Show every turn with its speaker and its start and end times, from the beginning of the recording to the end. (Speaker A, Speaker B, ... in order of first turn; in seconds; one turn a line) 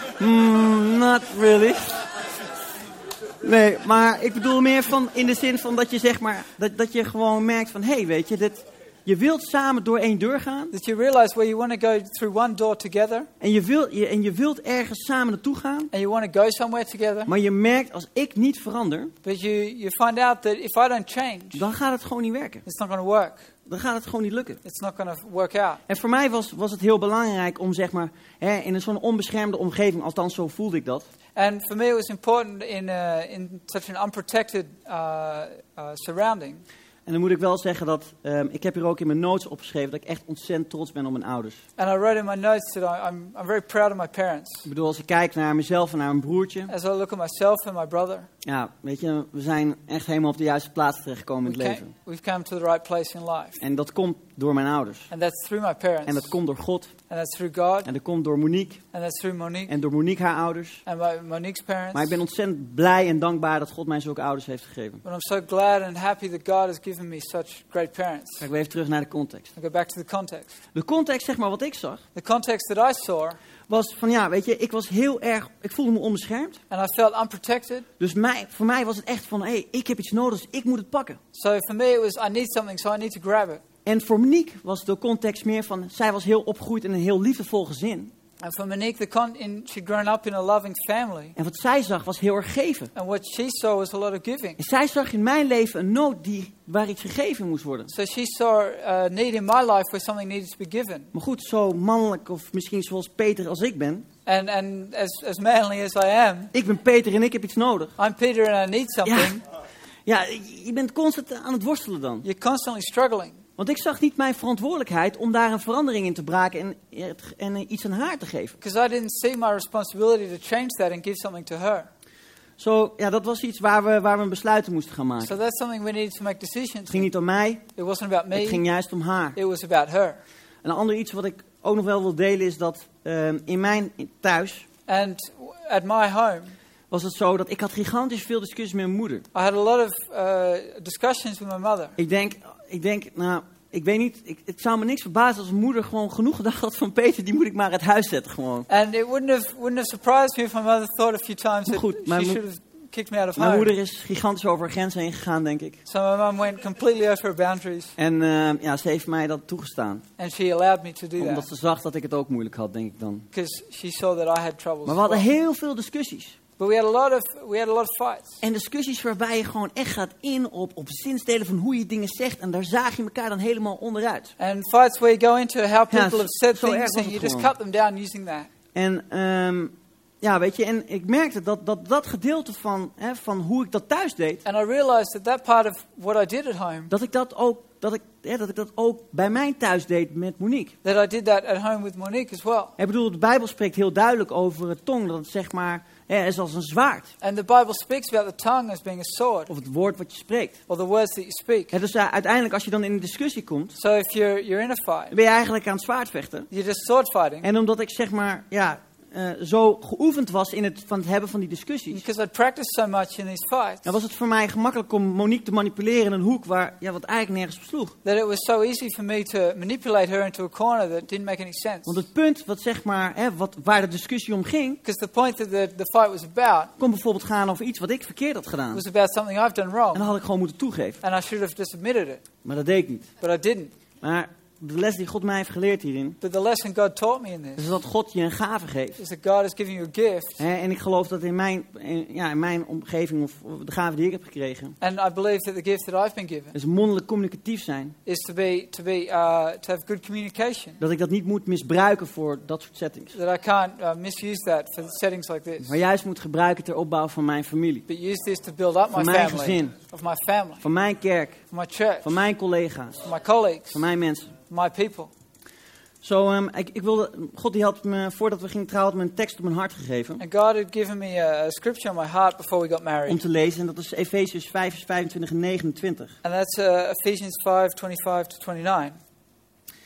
Speaker A: 0.2-2.0
Speaker A: 3.4-10.7
Speaker B: 10.7-13.3
Speaker A: 13.4-15.9
Speaker B: 15.9-17.3
Speaker A: 17.3-19.1
Speaker B: 19.2-21.7
Speaker A: 21.6-22.6
Speaker B: 22.6-23.5
Speaker A: 23.7-24.6
Speaker B: 24.6-25.8
Speaker A: 25.9-31.1
Speaker B: 31.4-36.6
Speaker A: 37.1-41.6
Speaker B: 41.8-44.7
Speaker A: 44.7-46.7
Speaker B: 46.7-48.3
Speaker A: 48.5-51.9
Speaker B: 51.5-53.6
Speaker A: 53.6-55.1
Speaker B: 55.1-56.4
Speaker A: 56.1-56.9
Speaker B: 57.1-57.9
Speaker A: 57.9-58.8
Speaker B: 58.9-59.7
Speaker A: 59.7-60.8
Speaker B: 60.9-62.2
Speaker A: 61.9-65.0
Speaker B: 65.0-68.5
Speaker A: 68.4-69.5
Speaker B: 69.6-70.6
Speaker A: 70.7-72.0
Speaker B: 72.2-73.4
Speaker A: 73.7-76.6
Speaker B: 76.7-77.9
Speaker A: 78.0-81.2
Speaker B: 81.3-83.6
Speaker A: 83.9-88.1
Speaker B: 88.4-91.3
Speaker A: 91.4-92.9
Speaker B: 93.0-94.6
Speaker A: 94.6-97.9
Speaker B: 97.9-101.1
Speaker A: 101.1-104.1
Speaker B: 104.3-106.5
Speaker A: 106.5-108.0
Speaker B: 108.0-109.4
Speaker A: 109.0-109.3
Speaker A: 110.1-112.2
Speaker B: 112.2-113.4
Speaker A: 113.6-118.6
Speaker B: 118.6-121.9
Speaker A: 122.6-125.3
Speaker B: 125.2-127.1
Speaker A: 126.9-127.6
Speaker B: 127.8-128.6
Speaker A: 128.3-129.4
Speaker B: 129.3-130.2
Speaker A: 130.6-134.7
Speaker B: 134.9-136.6
Speaker A: 136.9-139.2
Speaker B: 139.3-142.0
Speaker A: 142.0-148.7
Speaker B: 148.7-153.7
Speaker A: 151.7-152.4
Speaker A: 153.4-155.8
Speaker B: 155.9-157.9
Speaker A: 158.0-160.0
Speaker B: 160.2-161.5
Speaker A: 161.2-163.3
Speaker B: 163.3-165.3
Speaker A: 164.9-166.4
Speaker B: 166.6-168.4
Speaker A: 168.4-174.3
Speaker B: 174.4-178.5
Speaker A: 175.9-177.5
Speaker A: 178.8-184.4
Speaker B: 184.4-186.9
Speaker A: 186.9-190.7
Speaker B: 190.8-192.7
Speaker A: 192.8-197.1
Speaker B: 197.2-199.5
Speaker A: 199.5-200.6
Speaker B: 200.7-201.7
Speaker A: 201.7-203.8
Speaker B: 203.8-205.1
Speaker A: 205.1-206.5
Speaker B: 206.5-207.5
Speaker A: 207.4-212.0
Speaker B: 211.9-213.9
Speaker A: 213.8-217.9
Speaker B: 218.0-222.0
Speaker A: 221.9-224.8
Speaker B: 224.8-226.7
Speaker A: 226.8-228.8
Speaker B: 228.7-230.1
Speaker A: 229.9-231.0
Speaker B: 231.0-232.2
Speaker A: 232.4-233.1
Speaker B: 233.2-233.7
Speaker A: 234.0-236.2
Speaker B: 236.2-237.8
Speaker A: 237.6-239.0
Speaker B: 239.0-240.4
Speaker A: 240.4-244.8
Speaker B: 244.8-246.6
Speaker A: 246.5-247.9
Speaker B: 248.1-250.8
Speaker A: 250.8-253.2
Speaker B: 253.1-255.8
Speaker A: 255.6-257.9
Speaker B: 257.9-260.6
Speaker A: 258.9-259.7
Speaker A: 260.6-261.4
Speaker B: 261.5-262.1
Speaker A: 262.0-263.1
Speaker B: 263.0-263.8
Speaker A: 263.7-264.3
Speaker B: 264.5-265.1
Speaker A: 266.0-270.2
Speaker B: 270.2-273.2
Speaker A: 273.1-276.1
Speaker B: 276.2-279.0